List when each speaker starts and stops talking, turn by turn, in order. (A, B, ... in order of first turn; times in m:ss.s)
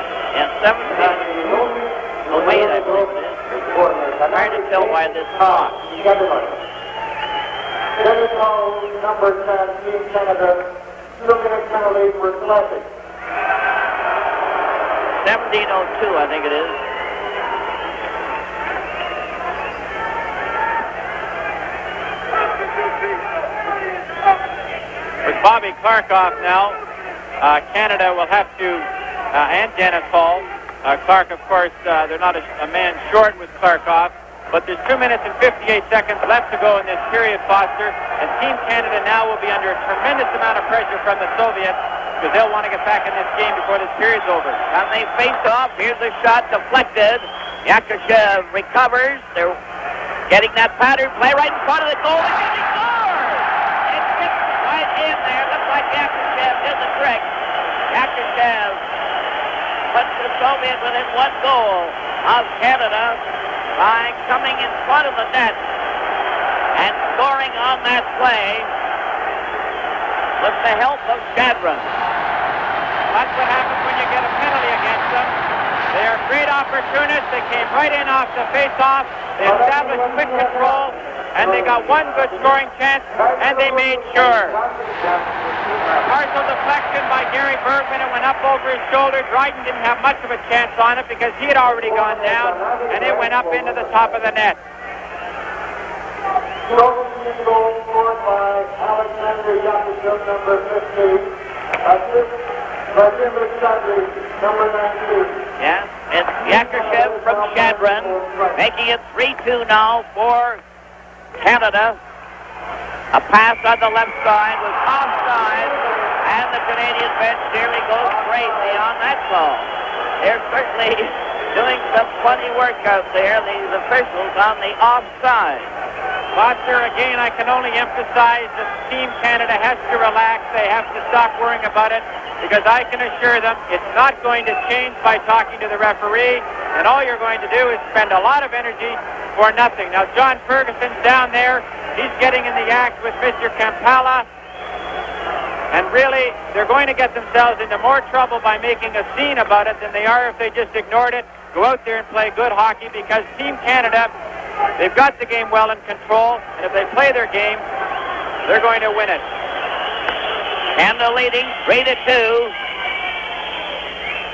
0:00.3-0:01.3 A
0:01.2-0:02.9 B
0:02.2-0:03.6 A
0:03.6-0:06.5 B
0:04.3-0:05.8 A
0:08.0-0:12.9 B
0:15.2-0:16.8 A
0:25.2-0:26.8 C
0:27.4-0:44.6 C
0:44.7-0:49.6 A
0:50.3-0:57.3 A
0:57.9-0:58.8 A
0:59.9-1:03.2 A
1:03.8-1:05.6 A
1:06.8-1:08.7 A
1:10.4-1:11.9 A
1:13.1-1:15.3 C
1:15.9-1:24.6 C
1:19.4-1:20.8 B
1:21.4-1:22.1 B
1:23.2-1:25.4 B
1:26.0-1:34.6 C
1:31.9-1:34.1 B
1:36.6-1:45.4 B
1:45.6-1:50.6 A
1:46.4-1:48.5 B
1:51.4-1:52.0 A
1:53.1-2:05.7 A
2:06.3-2:24.3 C
2:25.7-2:34.1 C
2:34.8-2:37.6 C
2:38.4-2:39.2 C
2:40.8-2:42.6 A